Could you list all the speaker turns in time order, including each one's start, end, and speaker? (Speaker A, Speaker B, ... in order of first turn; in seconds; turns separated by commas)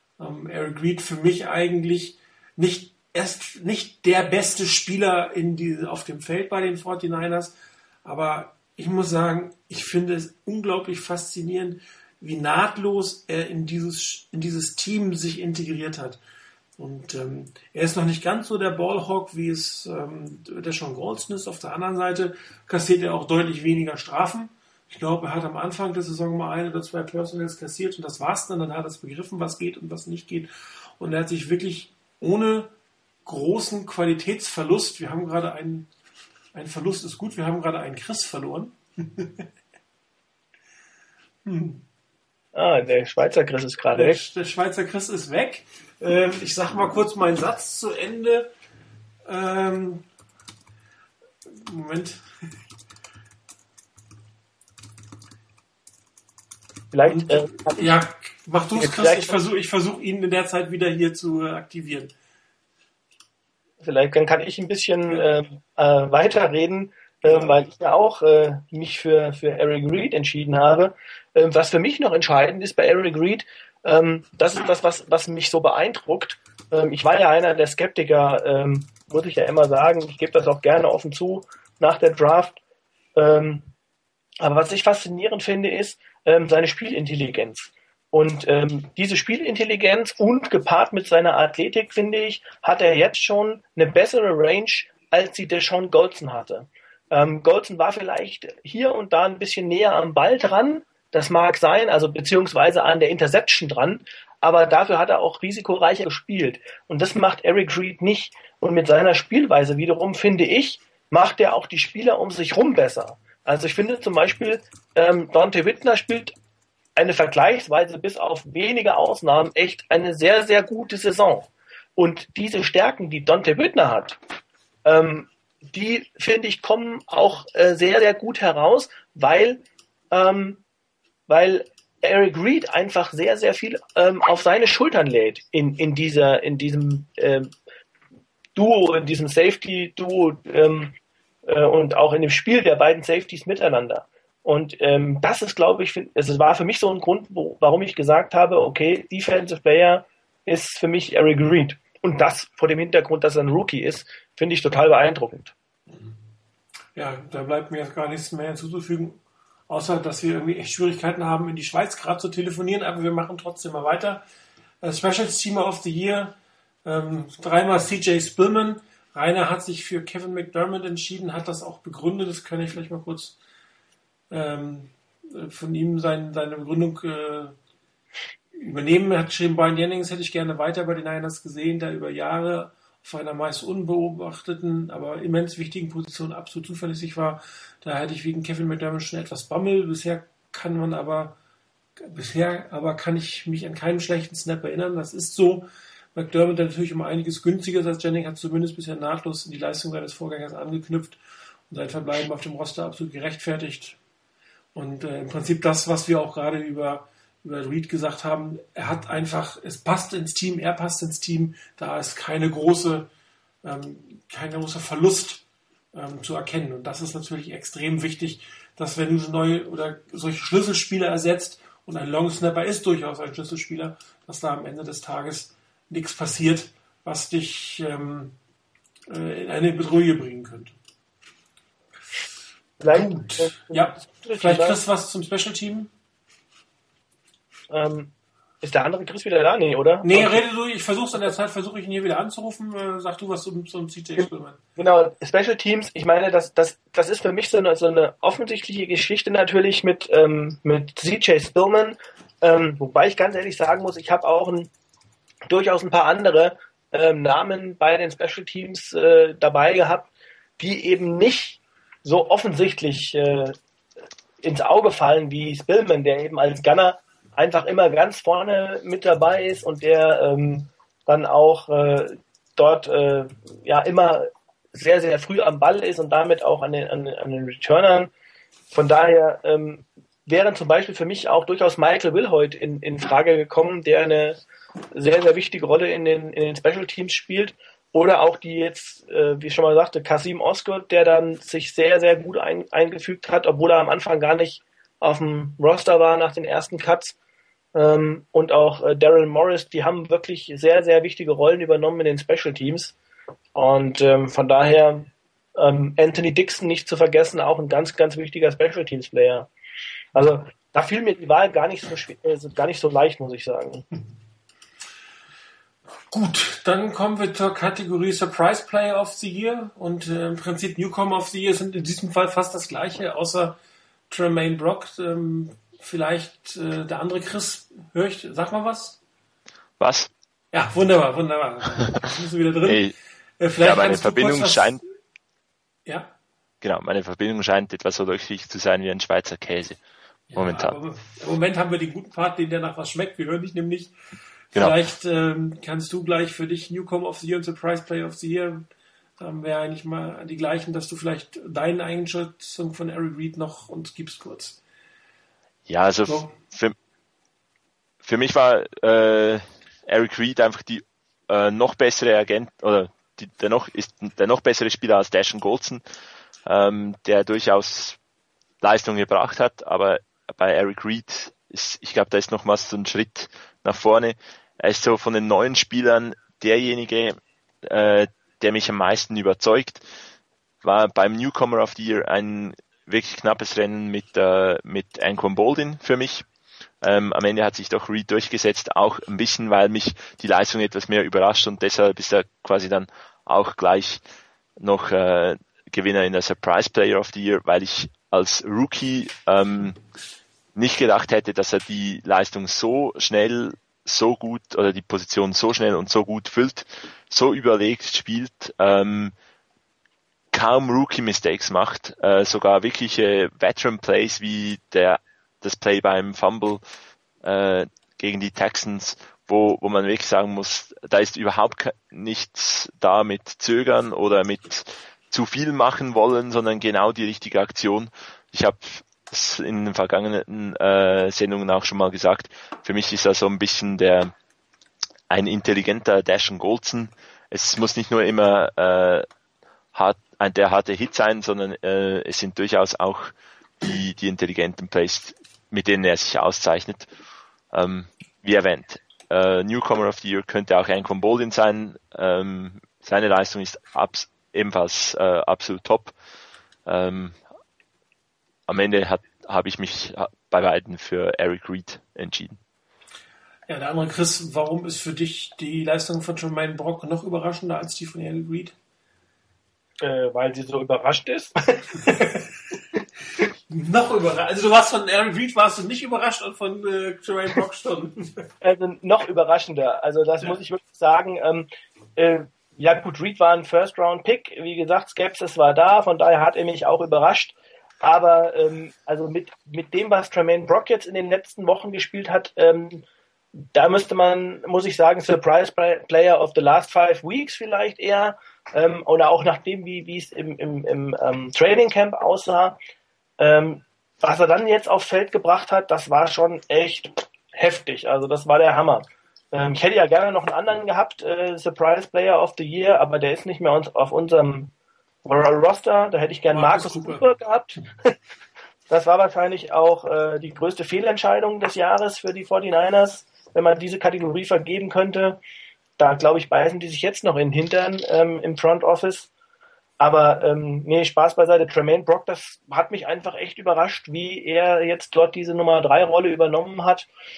Speaker A: 0.2-16.2, Speaker A: 16.8-32.7, Speaker A: 33.2-35.9, Speaker A: 36.5-39.5, Speaker A: 41.4-41.9, Speaker B: 42.5-44.2, Speaker A: 43.9-48.5, Speaker A: 49.2-50.1, Speaker A: 51.5-52.3, Speaker B: 56.9-58.0, Speaker A: 57.0-62.1, Speaker B: 58.8-59.4, Speaker B: 63.8-82.6, Speaker B: 83.2-83.7, Speaker B: 84.4-116.3, Speaker B: 117.0-124.2, Speaker B: 124.8-130.6, Speaker B: 131.3-137.5, Speaker B: 138.6-140.9, Speaker B: 141.5-155.5, Speaker A: 155.9-156.2, Speaker A: 156.9-164.2, Speaker A: 164.8-173.4, Speaker A: 174.3-177.6, Speaker A: 178.6-191.4, Speaker A: 192.0-204.0, Speaker A: 204.8-213.1, Speaker A: 213.6-228.4, Speaker A: 229.1-230.8, Speaker B: 232.8-234.8, Speaker A: 232.9-235.9, Speaker B: 237.7-240.4, Speaker A: 240.0-244.6, Speaker B: 244.2-254.7, Speaker B: 255.5-263.6, Speaker B: 264.4-278.1, Speaker B: 278.7-284.4, Speaker B: 284.9-297.2, Speaker B: 297.8-302.9, Speaker B: 303.6-309.5, Speaker B: 310.1-313.9, Speaker A: 316.1-323.6, Speaker A: 324.1-329.0, Speaker C: 329.8-330.1, Speaker A: 330.5-332.9, Speaker C: 332.6-332.9, Speaker A: 333.4-334.8, Speaker C: 333.6-334.8, Speaker A: 335.9-336.1, Speaker C: 336.6-339.8, Speaker A: 340.3-343.9, Speaker C: 340.4-340.8, Speaker A: 344.5-348.7, Speaker A: 349.2-354.6, Speaker C: 355.7-356.8, Speaker A: 356.1-356.4, Speaker C: 358.0-365.8, Speaker C: 366.5-368.0, Speaker C: 368.6-379.9, Speaker C: 380.6-386.3, Speaker C: 386.8-394.0, Speaker C: 394.6-399.8, Speaker C: 400.6-409.1, Speaker C: 410.3-416.6, Speaker C: 417.2-434.1, Speaker C: 435.1-439.1, Speaker C: 439.7-446.9, Speaker C: 447.5-455.9, Speaker C: 456.7-457.2, Speaker C: 458.5-462.4, Speaker A: 463.5-468.6, Speaker B: 469.8-472.2, Speaker A: 473.5-478.2, Speaker B: 478.4-492.9, Speaker B: 493.4-502.6, Speaker B: 503.2-514.5, Speaker B: 515.0-517.9, Speaker A: 516.3-517.1, Speaker B: 518.7-525.2, Speaker B: 525.8-529.1, Speaker B: 529.8-536.9